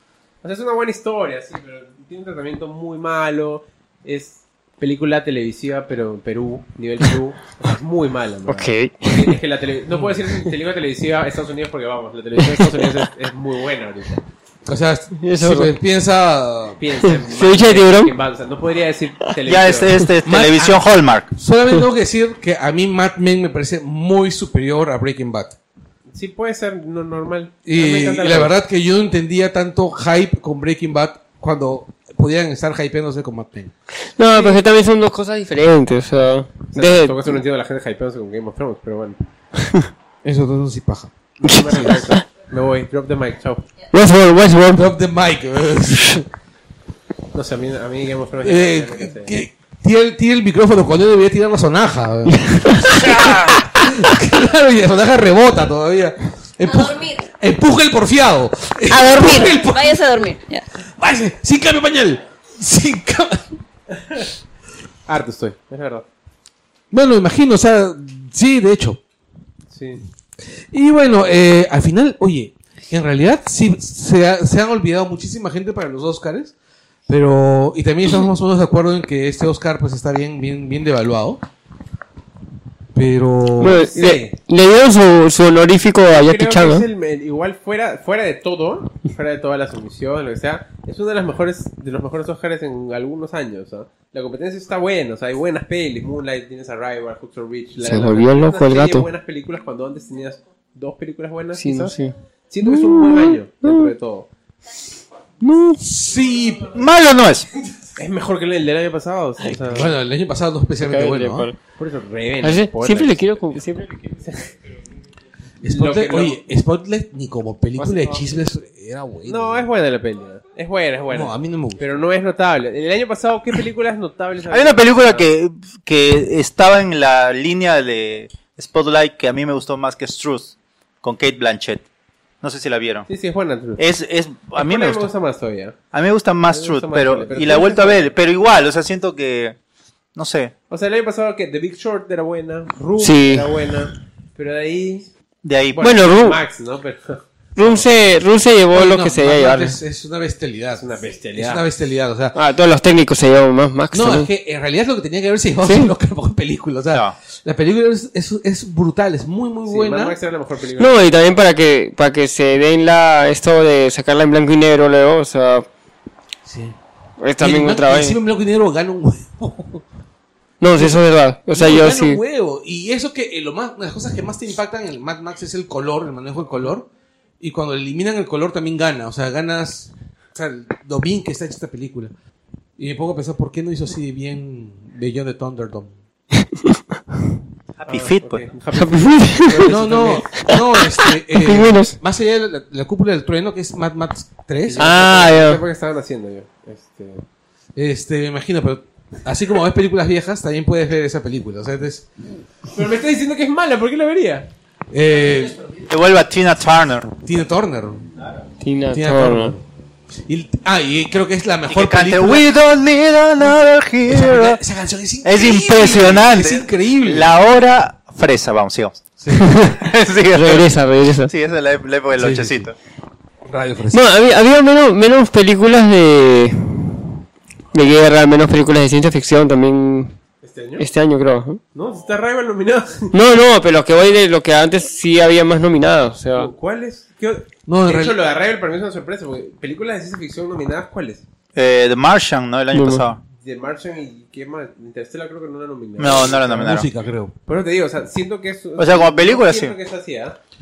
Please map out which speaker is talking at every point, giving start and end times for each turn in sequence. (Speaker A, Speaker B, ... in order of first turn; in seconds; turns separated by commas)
Speaker A: 0.4-14.2, Speaker B: 8.5-9.4, Speaker B: 12.4-12.8, Speaker C: 14.7-16.8, Speaker B: 15.2-15.7, Speaker A: 16.8-20.1, Speaker B: 17.2-18.1, Speaker D: 19.4-21.3, Speaker C: 20.2-20.8, Speaker C: 21.3-25.6, Speaker A: 26.1-28.6, Speaker C: 27.6-33.7, Speaker B: 34.1-37.4, Speaker A: 34.2-34.6, Speaker A: 36.7-39.2, Speaker C: 40.2-41.1, Speaker A: 41.4-43.6, Speaker B: 41.5-42.2, Speaker B: 43.9-44.9, Speaker C: 44.7-46.2, Speaker A: 47.3-49.4, Speaker C: 48.4-60.3, Speaker B: 52.4-53.0, Speaker E: 56.7-57.2, Speaker E: 58.9-60.6, Speaker C: 60.9-63.5, Speaker A: 64.0-64.3, Speaker A: 65.1-66.0, Speaker C: 66.9-69.0, Speaker A: 69.7-70.0, Speaker C: 70.7-76.5, Speaker C: 77.1-81.4, Speaker C: 82.9-83.8, Speaker B: 83.6-86.8, Speaker A: 83.7-84.4, Speaker A: 86.1-102.0, Speaker B: 97.8-99.1, Speaker B: 101.6-103.9, Speaker A: 102.5-104.3, Speaker B: 105.4-105.8, Speaker C: 105.8-106.8, Speaker D: 106.7-107.5, Speaker A: 108.0-109.9, Speaker C: 109.6-111.5, Speaker B: 110.8-111.6, Speaker A: 111.8-113.2, Speaker B: 112.4-113.9, Speaker A: 114.2-114.5, Speaker C: 115.6-119.7, Speaker A: 115.6-116.4, Speaker A: 119.2-125.3, Speaker C: 121.1-121.8, Speaker D: 124.5-131.8, Speaker D: 132.4-133.1, Speaker A: 133.1-133.8, Speaker D: 133.8-135.1, Speaker A: 134.5-135.8, Speaker D: 135.9-139.6, Speaker A: 136.5-138.1, Speaker D: 140.1-140.5, Speaker A: 140.7-145.1, Speaker B: 143.0-143.6, Speaker D: 145.4-146.0, Speaker A: 145.7-147.9, Speaker B: 145.8-146.4, Speaker B: 147.6-149.8, Speaker C: 148.7-152.3, Speaker A: 150.7-151.6, Speaker B: 152.3-154.3, Speaker C: 153.9-160.2, Speaker B: 155.6-155.9, Speaker A: 159.7-161.1, Speaker B: 160.8-165.7, Speaker C: 166.4-166.8, Speaker B: 167.2-168.2, Speaker C: 167.4-169.8, Speaker B: 170.6-172.2, Speaker C: 170.8-176.9, Speaker C: 177.4-182.1, Speaker C: 182.8-185.9, Speaker A: 187.8-190.2, Speaker D: 187.8-188.4, Speaker B: 188.7-191.9, Speaker C: 189.6-194.9, Speaker A: 194.6-197.2, Speaker B: 194.8-195.6, Speaker C: 197.8-202.1, Speaker A: 202.7-204.5, Speaker C: 204.9-205.6, Speaker D: 205.8-207.1, Speaker C: 207.2-208.1, Speaker B: 208.6-209.5, Speaker C: 208.9-209.6, Speaker C: 210.2-212.5, Speaker D: 211.7-214.6, Speaker C: 214.1-217.3, Speaker D: 215.2-219.0, Speaker C: 219.2-219.5, Speaker B: 219.3-219.8, Speaker D: 219.6-220.7, Speaker B: 220.3-221.3, Speaker D: 221.2-222.7, Speaker C: 222.2-222.7, Speaker C: 223.4-224.0, Speaker B: 223.9-227.1, Speaker B: 227.7-230.2, Speaker A: 230.4-230.8, Speaker B: 230.8-231.6, Speaker A: 231.7-233.1, Speaker B: 233.1-236.5, Speaker A: 236.3-241.2, Speaker C: 237.7-238.2, Speaker D: 241.5-243.2, Speaker B: 242.7-243.0, Speaker A: 243.4-246.7, Speaker D: 246.0-246.9, Speaker C: 246.5-247.3, Speaker A: 247.4-250.4, Speaker D: 248.8-249.8